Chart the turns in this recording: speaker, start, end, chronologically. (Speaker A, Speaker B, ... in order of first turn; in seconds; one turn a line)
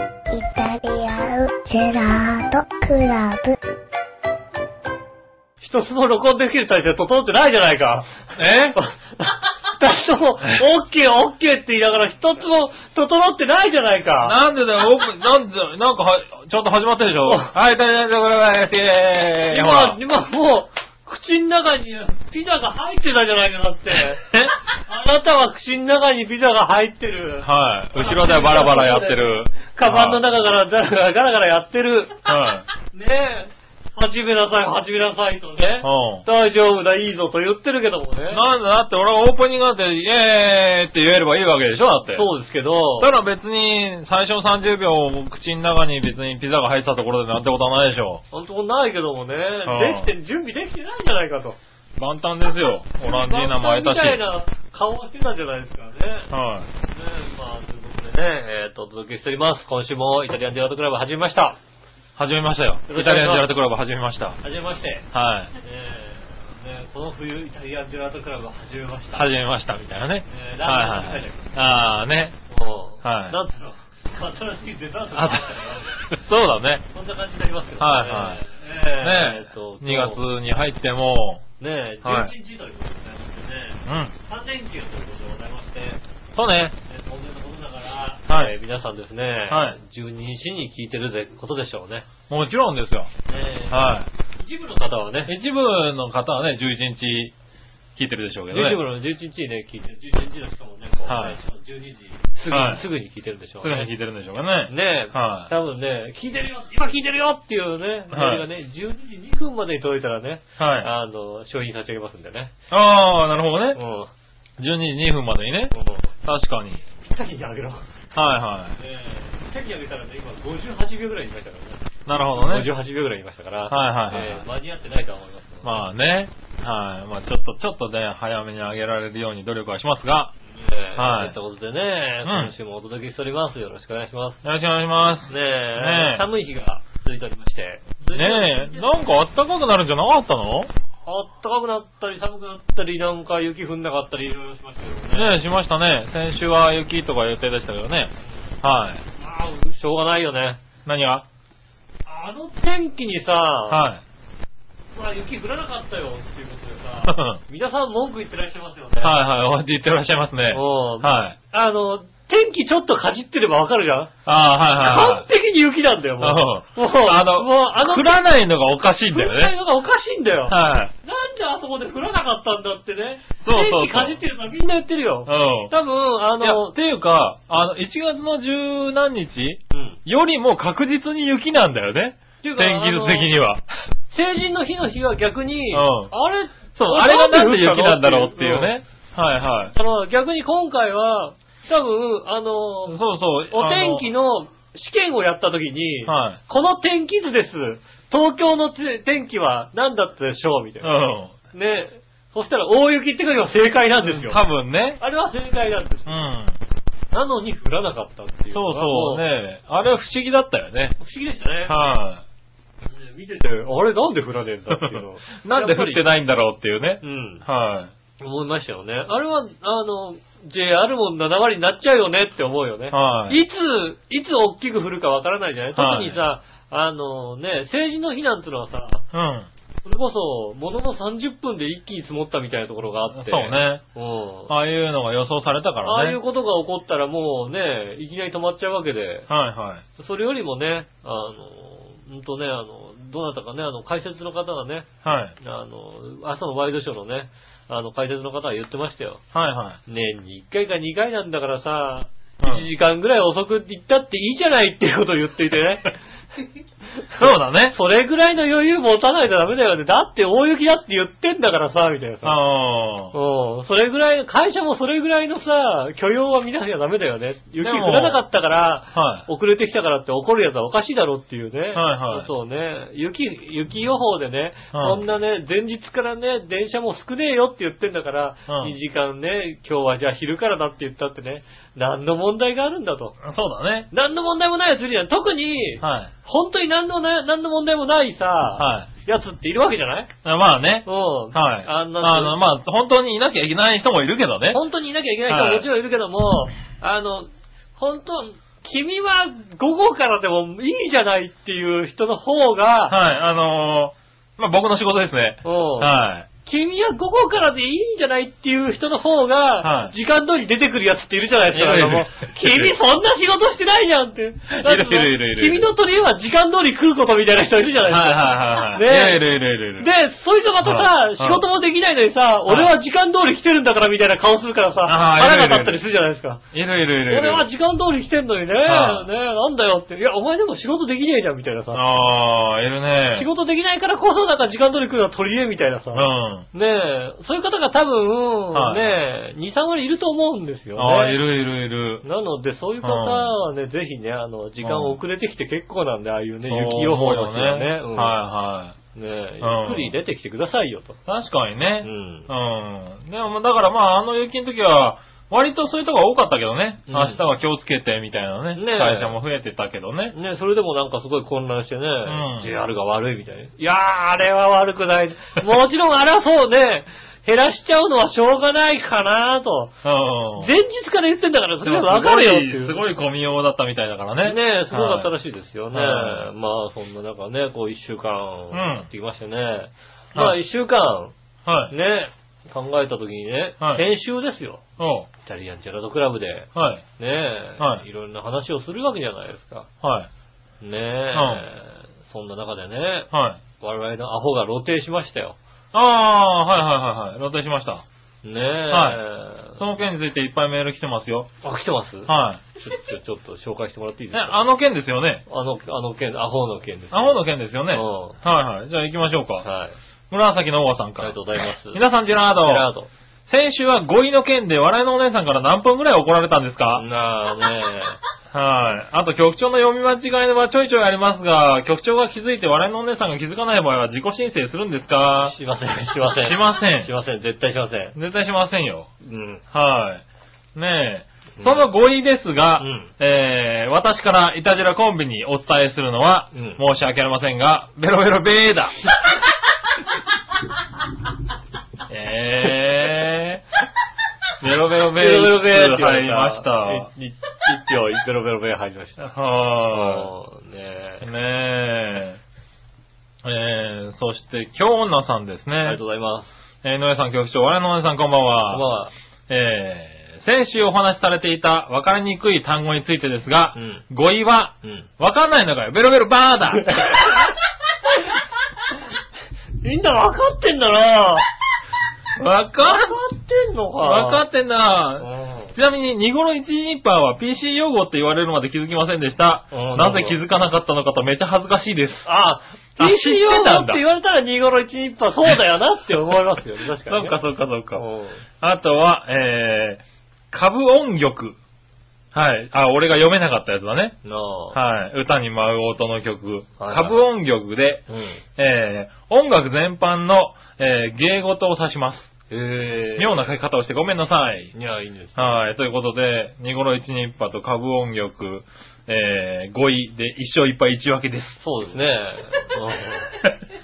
Speaker A: 0.3-3.6
Speaker B: 5.6-8.2
Speaker C: 8.4-8.8
Speaker B: 8.8-14.4
Speaker C: 14.2-20.0
Speaker B: 17.2-17.5
Speaker B: 19.5-24.2
Speaker C: 24.2-24.5
Speaker B: 24.8-32.2
Speaker C: 27.4-30.2
Speaker C: 32.3-32.7
Speaker B: 32.9-38.4
Speaker C: 35.8-36.3
Speaker C: 38.3-42.3
Speaker B: 42.1-43.1
Speaker C: 43.0-48.2
Speaker B: 48.3-51.6
Speaker C: 49.7-50.1
Speaker C: 52.0-54.2
Speaker B: 53.0-61.6
Speaker C: 56.3-56.7
Speaker C: 62.2-64.4
Speaker B: 62.9-63.5
Speaker B: 64.4-69.2
Speaker C: 65.1-65.5
Speaker C: 69.1-72.4
Speaker B: 70.2-71.5
Speaker B: 72.5-76.1
Speaker C: 73.0-73.4
Speaker C: 75.1-75.6
Speaker C: 76.1-76.9
Speaker B: 76.9-80.2
Speaker C: 77.8-78.4
Speaker C: 79.0-81.5
Speaker B: 81.6-86.0
Speaker C: 82.0-82.3
Speaker C: 83.9-84.1
Speaker C: 86.3-86.8
Speaker B: 86.8-92.1
Speaker C: 88.3-88.5
Speaker C: 89.5-89.8
Speaker C: 92.3-93.1
Speaker B: 93.2-95.3
Speaker C: 93.7-94.1
Speaker C: 95.3-97.3
Speaker C: 98.0-98.8
Speaker B: 98.5-103.9
Speaker C: 101.1-101.4
Speaker C: 102.5-102.9
Speaker C: 103.6-105.5
Speaker B: 104.7-112.5
Speaker C: 108.1-108.5
Speaker C: 110.6-110.9
Speaker C: 112.7-113.8
Speaker B: 113.8-114.1
Speaker C: 114.6-116.8
Speaker B: 115.7-116.1
Speaker B: 117.0-117.9
Speaker C: 118.1-118.8
Speaker B: 118.8-125.8
Speaker C: 122.1-122.7
Speaker C: 123.7-124.5
Speaker C: 125.6-130.3
Speaker B: 130.4-134.4
Speaker C: 130.9-131.3
Speaker C: 132.2-132.5
Speaker C: 134.4-136.2
Speaker B: 135.3-139.0
Speaker C: 138.1-140.7
Speaker B: 141.1-145.4
Speaker C: 145.1-149.0
Speaker B: 149.1-150.6
Speaker C: 150.8-151.2
Speaker B: 152.1-153.8
Speaker C: 153.7-154.0
Speaker B: 154.9-159.2
Speaker C: 157.0-157.4
Speaker C: 159.0-161.4
Speaker B: 160.5-164.1
Speaker C: 164.2-165.3
Speaker B: 164.8-168.2
Speaker C: 166.2-169.5
Speaker B: 169.1-176.7
Speaker C: 170.5-170.9
Speaker C: 173.4-174.2
Speaker C: 175.3-175.7
Speaker C: 176.4-183.6
Speaker B: 179.7-180.0
Speaker B: 182.4-183.3
Speaker B: 184.1-188.7
Speaker C: 185.7-186.1
Speaker C: 186.8-189.7
Speaker B: 189.7-200.9
Speaker C: 192.9-194.1
Speaker C: 196.1-196.4
Speaker C: 200.8-201.3
Speaker B: 201.5-204.4
Speaker C: 204.0-205.0
Speaker B: 205.0-206.3
Speaker C: 206.1-206.6
Speaker B: 207.1-209.2
Speaker C: 208.5-211.0
Speaker B: 211.0-211.8
Speaker C: 211.7-212.2
Speaker B: 212.8-216.0
Speaker C: 214.7-217.9
Speaker B: 217.0-217.4
Speaker B: 218.2-229.0
Speaker C: 222.9-223.4
Speaker C: 225.7-226.2
Speaker C: 229.1-229.5
Speaker B: 229.8-234.5
Speaker C: 233.1-233.8
Speaker C: 234.5-236.2
Speaker B: 235.8-239.3
Speaker C: 239.3-239.8
Speaker B: 240.0-244.9
Speaker C: 245.0-245.3
Speaker B: 245.4-249.2
Speaker C: 249.3-249.8
Speaker B: 249.8-256.0
Speaker C: 252.4-252.7
Speaker B: 257.0-262.4
Speaker C: 257.2-257.8
Speaker C: 262.2-263.1
Speaker B: 263.1-283.2
Speaker C: 267.6-268.2
Speaker C: 268.9-269.2
Speaker C: 271.8-272.3
Speaker C: 274.7-275.0
Speaker C: 278.5-278.8
Speaker C: 283.2-283.9
Speaker B: 283.9-290.1
Speaker C: 285.8-286.1
Speaker C: 288.6-288.9
Speaker C: 290.2-294.6
Speaker B: 290.9-292.4
Speaker B: 294.5-303.0
Speaker C: 295.3-295.7
Speaker C: 302.9-306.3
Speaker B: 305.4-305.9
Speaker B: 306.4-319.2
Speaker C: 309.6-309.9
Speaker C: 311.5-312.7
Speaker C: 314.5-315.7
Speaker C: 317.9-319.9
Speaker B: 319.8-326.4
Speaker C: 320.6-321.4
Speaker C: 324.9-325.8
Speaker C: 326.5-327.5
Speaker B: 327.1-331.8
Speaker C: 328.6-329.1
Speaker C: 331.7-333.3
Speaker B: 333.1-341.2
Speaker C: 335.9-336.5
Speaker C: 338.5-339.0
Speaker C: 340.8-342.0
Speaker B: 342.0-348.2
Speaker C: 342.8-343.3
Speaker C: 344.6-345.0
Speaker C: 346.4-348.8
Speaker B: 348.9-351.0
Speaker C: 349.4-349.9
Speaker C: 351.1-360.1
Speaker B: 351.8-352.3
Speaker B: 356.9-357.2
Speaker B: 358.6-359.1
Speaker B: 360.1-369.8
Speaker C: 362.1-362.5
Speaker C: 369.8-370.5
Speaker B: 370.4-372.8
Speaker C: 371.6-375.1
Speaker B: 374.2-381.1
Speaker C: 375.7-376.3
Speaker C: 378.5-378.9
Speaker C: 381.4-381.7
Speaker B: 381.7-384.6
Speaker C: 384.8-385.1
Speaker B: 385.2-389.7
Speaker C: 386.5-386.8
Speaker C: 387.6-387.8
Speaker C: 389.8-390.1
Speaker B: 390.6-395.4
Speaker C: 391.1-391.4
Speaker C: 393.1-393.4
Speaker C: 395.7-397.8
Speaker B: 398.2-399.6
Speaker C: 398.7-399.0
Speaker C: 399.6-401.3
Speaker B: 401.4-404.4
Speaker C: 402.1-402.4
Speaker C: 404.1-405.2
Speaker B: 405.3-408.1
Speaker C: 406.9-409.4
Speaker B: 409.4-409.8
Speaker C: 410.1-411.2
Speaker B: 411.0-411.8
Speaker C: 411.7-412.7
Speaker B: 412.4-412.9
Speaker C: 413.3-416.8
Speaker B: 416.8-418.0
Speaker C: 418.3-425.4
Speaker B: 425.2-427.9
Speaker C: 426.2-426.9
Speaker C: 427.9-428.9
Speaker B: 429.0-429.4
Speaker C: 429.5-430.0
Speaker C: 430.5-438.8
Speaker B: 431.4-431.6
Speaker B: 432.6-432.9
Speaker B: 436.3-436.6
Speaker C: 441.9-443.4
Speaker C: 444.4-447.6
Speaker B: 445.0-446.9
Speaker B: 447.5-449.1
Speaker C: 449.0-450.1
Speaker B: 449.7-451.0
Speaker C: 451.0-452.2
Speaker C: 453.2-455.8
Speaker B: 455.6-456.3
Speaker C: 456.6-458.7
Speaker B: 458.5-458.9
Speaker C: 459.3-467.1
Speaker B: 463.6-463.8
Speaker B: 464.6-464.9
Speaker B: 466.7-467.2
Speaker B: 469.6-471.2
Speaker C: 472.1-473.0
Speaker B: 472.6-474.2
Speaker C: 473.8-482.1
Speaker B: 475.0-475.5
Speaker B: 479.5-480.2
Speaker B: 482.0-487.2
Speaker C: 482.8-483.8
Speaker C: 486.9-487.8
Speaker B: 487.7-488.2
Speaker C: 488.4-491.4
Speaker C: 492.1-494.0
Speaker B: 494.0-494.6
Speaker C: 494.5-497.8
Speaker B: 496.6-497.0
Speaker B: 497.9-498.2
Speaker C: 498.4-502.1
Speaker B: 502.3-503.2
Speaker C: 503.0-504.5
Speaker B: 504.5-505.4
Speaker C: 505.1-511.4
Speaker B: 511.4-513.2